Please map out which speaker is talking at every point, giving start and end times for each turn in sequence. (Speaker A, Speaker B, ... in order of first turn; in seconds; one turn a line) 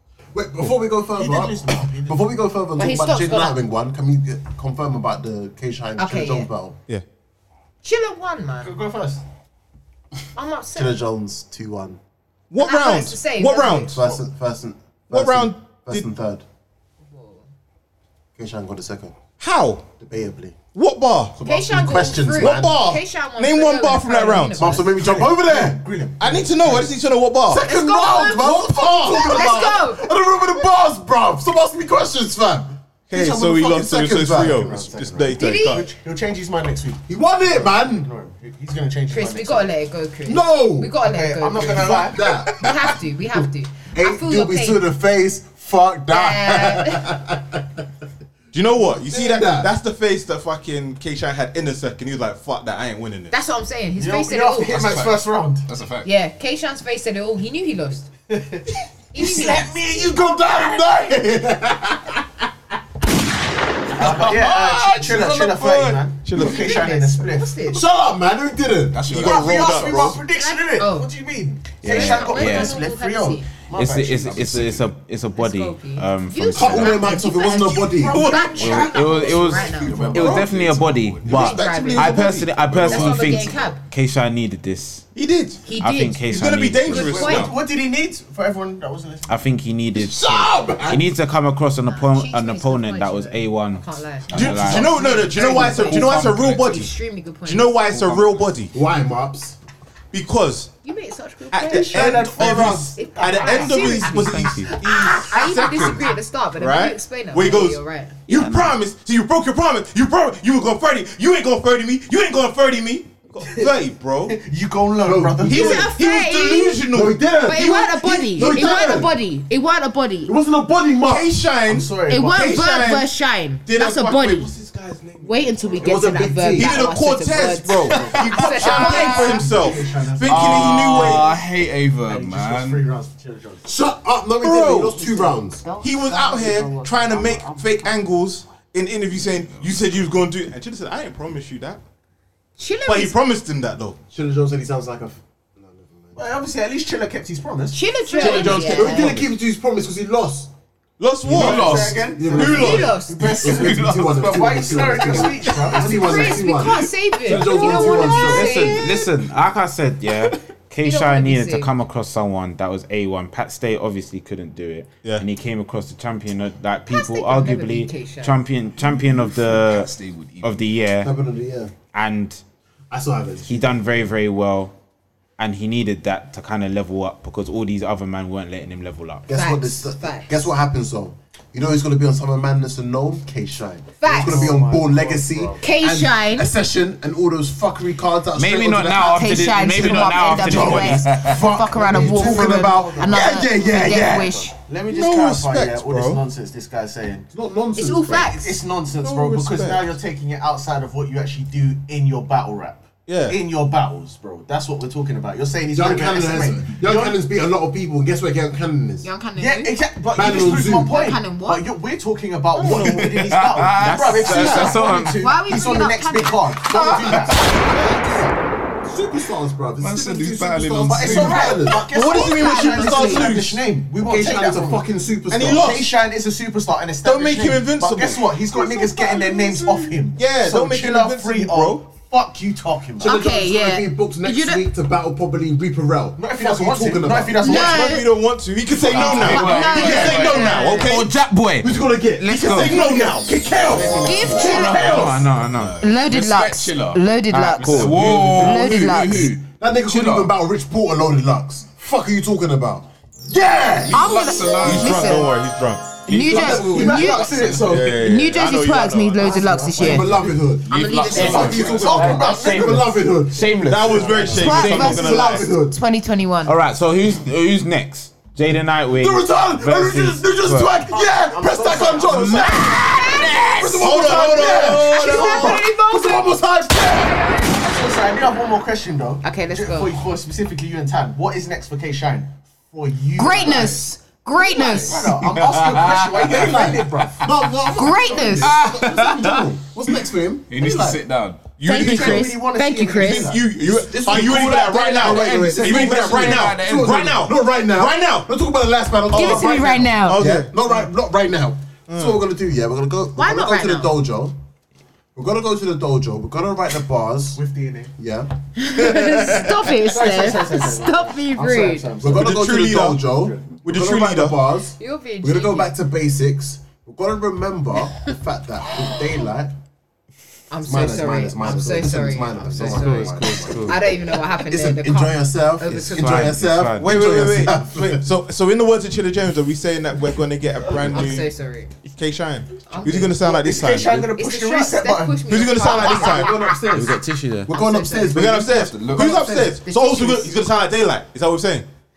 Speaker A: 0.3-6.8
Speaker B: 1.1-2.3
Speaker C: 2.8-3.6
Speaker C: 6.0-6.5
Speaker C: 7.8-8.7
Speaker B: 8.6-9.2
Speaker C: 10.3-11.0
Speaker A: 10.7-12.0
Speaker D: 12.5-14.2
Speaker C: 12.6-13.9
Speaker A: 13.9-16.4
Speaker D: 15.1-16.1
Speaker C: 17.1-17.5
Speaker A: 18.4-19.1
Speaker D: 19.4-19.9
Speaker A: 20.0-20.6
Speaker D: 20.7-21.4
Speaker A: 21.4-22.8
Speaker C: 21.4-24.9
Speaker D: 22.4-24.8
Speaker A: 24.6-25.8
Speaker B: 24.8-26.9
Speaker D: 26.2-27.7
Speaker A: 27.5-35.2
Speaker C: 27.6-30.1
Speaker D: 28.4-29.7
Speaker D: 33.1-35.9
Speaker B: 34.7-39.7
Speaker C: 35.4-35.9
Speaker A: 37.1-38.1
Speaker C: 39.1-44.8
Speaker A: 40.2-40.9
Speaker B: 41.0-42.4
Speaker A: 41.5-47.9
Speaker C: 46.1-47.1
Speaker D: 48.5-53.3
Speaker A: 48.8-49.7
Speaker C: 53.3-54.9
Speaker B: 54.0-55.7
Speaker E: 54.7-56.1
Speaker C: 56.0-58.1
Speaker B: 58.3-60.1
Speaker C: 59.1-59.7
Speaker A: 59.2-62.5
Speaker B: 64.0-67.6
Speaker E: 64.0-66.0
Speaker D: 66.2-66.9
Speaker C: 66.3-67.8
Speaker A: 67.7-69.0
Speaker E: 68.9-70.1
Speaker D: 69.1-70.2
Speaker B: 69.2-74.6
Speaker C: 70.3-71.1
Speaker C: 71.8-73.5
Speaker F: 71.8-72.8
Speaker F: 73.7-77.2
Speaker E: 74.3-74.9
Speaker C: 75.3-80.0
Speaker A: 76.5-78.4
Speaker B: 78.0-79.4
Speaker F: 78.5-85.0
Speaker E: 79.2-81.5
Speaker A: 79.8-80.4
Speaker B: 80.0-80.4
Speaker D: 81.2-83.4
Speaker C: 81.2-82.2
Speaker C: 82.8-83.8
Speaker E: 83.4-83.7
Speaker D: 85.1-85.6
Speaker C: 85.7-86.3
Speaker F: 85.8-87.3
Speaker D: 86.3-87.5
Speaker C: 86.9-87.5
Speaker B: 86.9-89.5
Speaker F: 89.3-94.9
Speaker A: 89.9-91.1
Speaker C: 91.9-97.8
Speaker E: 94.3-94.9
Speaker D: 94.3-96.9
Speaker B: 95.4-95.9
Speaker E: 95.9-96.7
Speaker D: 97.4-98.7
Speaker E: 97.9-98.4
Speaker A: 98.7-99.6
Speaker D: 100.1-100.7
Speaker C: 100.8-108.2
Speaker D: 101.5-114.4
Speaker B: 101.7-104.1
Speaker F: 103.7-104.8
Speaker F: 108.3-108.8
Speaker B: 114.3-115.9
Speaker A: 115.0-115.9
Speaker D: 115.5-119.0
Speaker C: 115.5-116.8
Speaker A: 116.9-119.1
Speaker C: 117.4-120.3
Speaker A: 120.2-121.3
Speaker D: 121.0-123.1
Speaker B: 121.7-122.7
Speaker C: 122.1-124.5
Speaker D: 123.7-126.0
Speaker C: 125.2-129.5
Speaker A: 125.8-126.8
Speaker D: 126.5-131.3
Speaker B: 127.9-131.4
Speaker E: 130.2-132.8
Speaker B: 132.0-133.7
Speaker A: 133.6-135.7
Speaker D: 134.4-135.2
Speaker D: 135.8-141.8
Speaker C: 136.4-136.8
Speaker E: 139.2-139.8
Speaker C: 142.6-143.1
Speaker D: 142.8-144.0
Speaker A: 144.1-146.3
Speaker B: 146.2-149.2
Speaker C: 147.7-149.2
Speaker A: 148.1-150.5
Speaker D: 151.0-153.0
Speaker A: 151.2-158.8
Speaker B: 151.2-156.5
Speaker E: 151.3-152.1
Speaker C: 152.4-153.3
Speaker E: 153.2-155.6
Speaker C: 155.8-159.1
Speaker F: 158.1-171.1
Speaker C: 160.8-161.7
Speaker C: 166.9-168.4
Speaker E: 168.8-170.8
Speaker A: 171.0-171.7
Speaker F: 171.9-172.4
Speaker A: 172.9-173.8
Speaker F: 173.5-174.7
Speaker F: 175.4-179.3
Speaker A: 179.3-194.4
Speaker C: 179.3-180.3
Speaker C: 184.0-184.6
Speaker B: 184.0-185.6
Speaker C: 185.6-186.5
Speaker F: 188.3-191.3
Speaker C: 188.9-194.5
Speaker B: 190.5-190.8
Speaker B: 191.7-197.3
Speaker D: 194.9-196.2
Speaker A: 197.3-198.4
Speaker C: 197.8-198.6
Speaker B: 198.2-207.2
Speaker D: 199.0-199.9
Speaker D: 203.1-203.4
Speaker A: 205.7-209.1
Speaker C: 209.0-211.7
Speaker B: 209.4-217.4
Speaker A: 210.1-211.1
Speaker E: 212.6-214.8
Speaker F: 213.8-215.2
Speaker C: 214.4-216.4
Speaker A: 216.6-221.8
Speaker E: 219.8-221.6
Speaker B: 220.9-224.9
Speaker C: 221.7-223.3
Speaker D: 221.9-223.6
Speaker A: 224.0-225.8
Speaker D: 225.3-225.9
Speaker B: 225.4-233.2
Speaker D: 227.0-228.3
Speaker A: 228.5-230.0
Speaker D: 230.2-231.8
Speaker A: 233.0-237.7
Speaker C: 233.0-234.7
Speaker B: 236.2-238.0
Speaker C: 237.4-238.1
Speaker D: 237.4-241.2
Speaker E: 238.8-240.5
Speaker C: 238.9-240.9
Speaker A: 239.1-240.4
Speaker F: 240.8-242.8
Speaker A: 241.6-244.8
Speaker D: 242.2-243.3
Speaker B: 242.5-245.2
Speaker C: 244.0-245.1
Speaker E: 244.3-250.3
Speaker F: 244.5-245.8
Speaker C: 245.8-249.3
Speaker F: 247.3-248.8
Speaker A: 248.8-254.1
Speaker E: 253.9-255.2
Speaker C: 253.9-255.3
Speaker D: 254.6-255.9
Speaker C: 256.1-260.1
Speaker E: 256.1-257.6
Speaker A: 256.1-257.6
Speaker B: 256.2-258.0
Speaker D: 257.6-260.1
Speaker B: 259.2-260.1
Speaker A: 259.7-265.8
Speaker C: 260.7-262.1
Speaker E: 260.7-262.1
Speaker F: 260.8-265.0
Speaker B: 261.1-262.9
Speaker D: 263.7-265.5
Speaker B: 263.9-264.5
Speaker C: 264.3-266.6
Speaker F: 266.4-270.8
Speaker A: 268.9-277.6
Speaker B: 270.9-272.8
Speaker C: 272.2-273.4
Speaker D: 273.8-275.5
Speaker B: 274.4-275.6
Speaker C: 274.6-276.3
Speaker B: 277.4-283.8
Speaker C: 279.2-279.9
Speaker C: 283.2-285.1
Speaker B: 284.4-287.2
Speaker A: 284.5-284.9
Speaker E: 285.2-287.3
Speaker A: 286.0-291.0
Speaker C: 287.7-288.5
Speaker E: 288.4-289.5
Speaker E: 290.5-291.5
Speaker D: 291.6-292.4
Speaker C: 291.6-293.3
Speaker B: 291.6-295.4
Speaker D: 293.0-298.3
Speaker A: 293.7-304.4
Speaker E: 295.1-297.2
Speaker C: 299.1-300.2
Speaker D: 299.1-300.5
Speaker D: 301.9-302.2
Speaker C: 303.1-303.9
Speaker A: 305.1-307.4
Speaker B: 307.3-307.9
Speaker A: 308.0-308.3
Speaker C: 308.6-311.9
Speaker D: 308.9-309.5
Speaker B: 309.6-312.4
Speaker A: 312.0-319.5
Speaker D: 312.1-313.1
Speaker B: 313.1-313.5
Speaker D: 313.6-314.4
Speaker C: 314.8-315.7
Speaker C: 320.5-326.4
Speaker A: 320.6-328.0
Speaker F: 322.5-323.8
Speaker F: 325.7-327.5
Speaker D: 326.8-331.3
Speaker C: 330.9-331.7
Speaker D: 331.9-334.1
Speaker C: 332.7-333.2
Speaker B: 333.0-335.3
Speaker C: 334.1-336.6
Speaker D: 335.3-336.4
Speaker A: 335.6-338.8
Speaker F: 336.7-337.5
Speaker C: 337.5-340.3
Speaker D: 338.1-341.6
Speaker E: 338.5-339.2